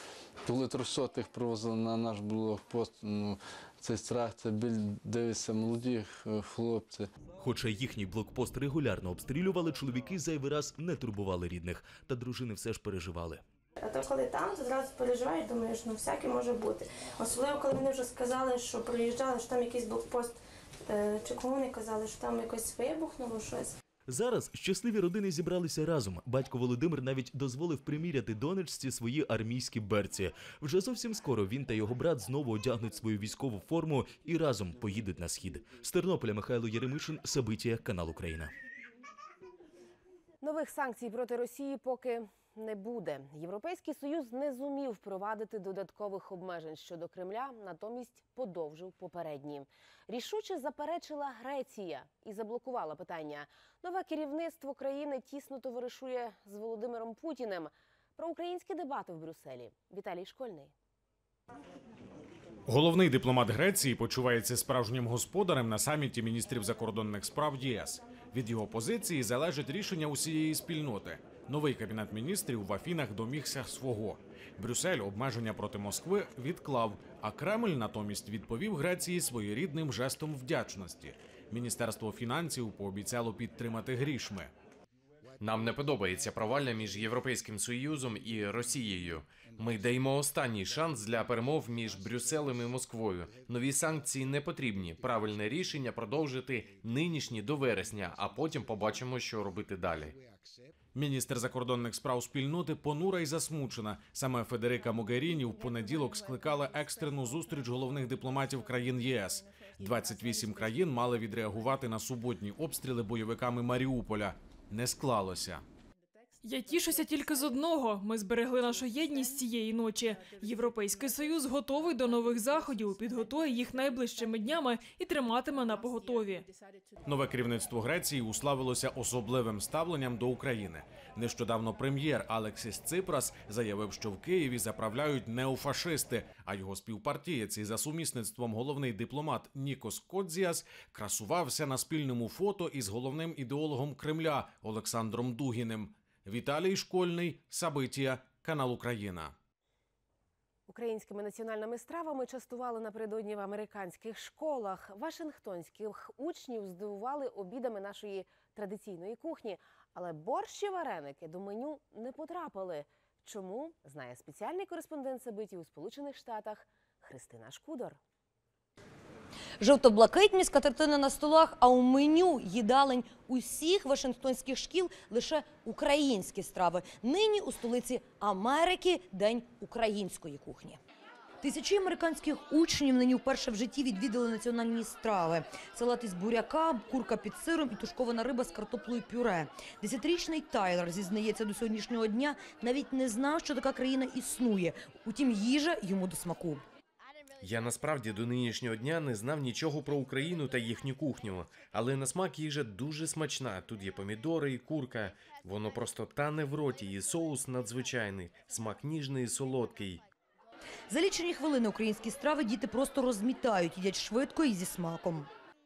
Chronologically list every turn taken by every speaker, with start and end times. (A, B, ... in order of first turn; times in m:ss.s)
0:00.4-0:07.1 A
0:07.4-0:13.4 B
0:13.8-0:20.4 C
0:20.9-0:23.7 C
0:24.1-0:38.5 B
0:40.4-1:00.7 D
1:02.7-1:24.5 E
1:25.4-1:40.2 F
1:40.9-1:55.6 E
1:56.4-2:06.5 G
2:07.0-2:29.3 E
2:30.7-2:48.0 D
2:49.6-3:00.8 H
3:01.4-3:16.6 H
3:17.4-3:30.0 F
3:30.9-3:35.3 H